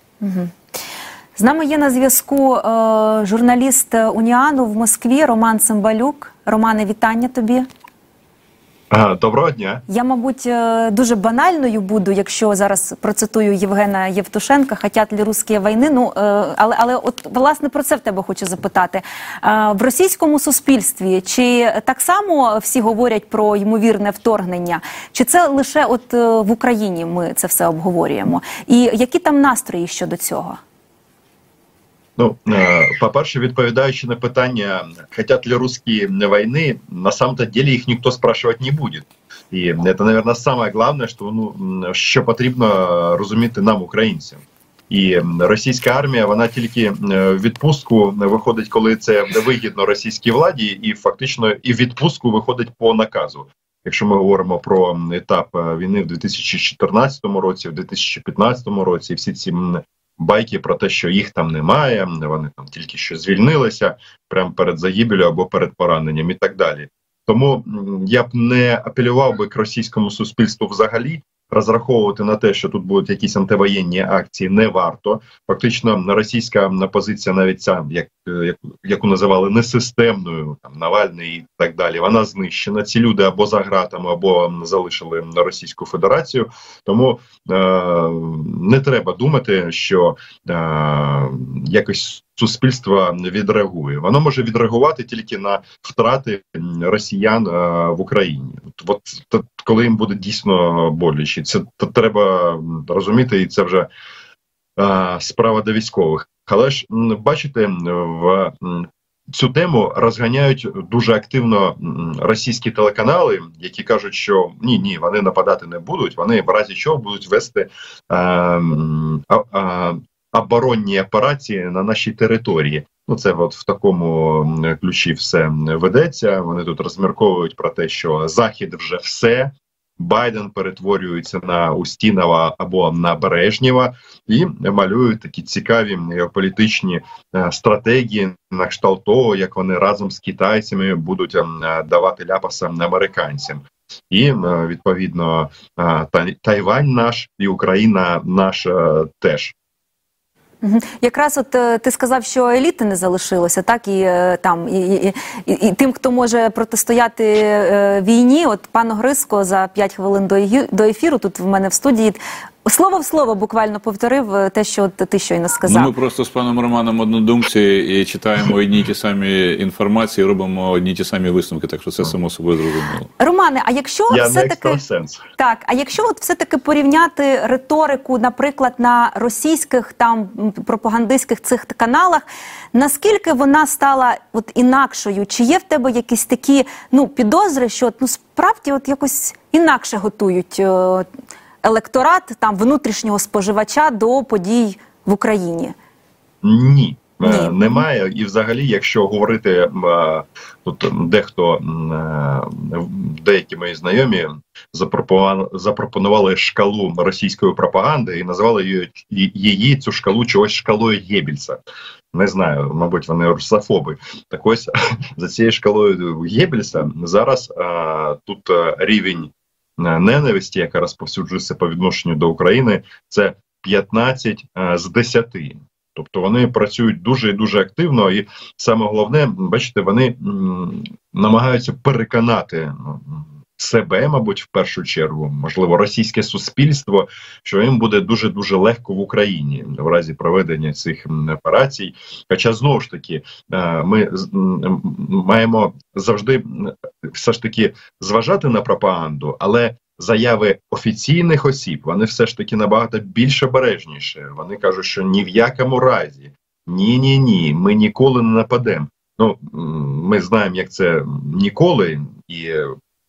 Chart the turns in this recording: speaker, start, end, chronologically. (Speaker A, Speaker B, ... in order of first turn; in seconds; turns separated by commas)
Speaker A: 0.2-0.5, Speaker A: 1.4-7.7, Speaker B: 8.9-9.8, Speaker A: 9.9-30.6, Speaker B: 32.2-103.9, Speaker B: 104.8-149.5, Speaker A: 150.6-165.9, Speaker C: 165.7-173.1, Speaker A: 173.2-174.8, Speaker B: 174.1-175.2, Speaker A: 175.4-191.1, Speaker A: 191.6-195.8, Speaker B: 196.4-211.6, Speaker A: 197.2-197.8, Speaker B: 212.1-262.7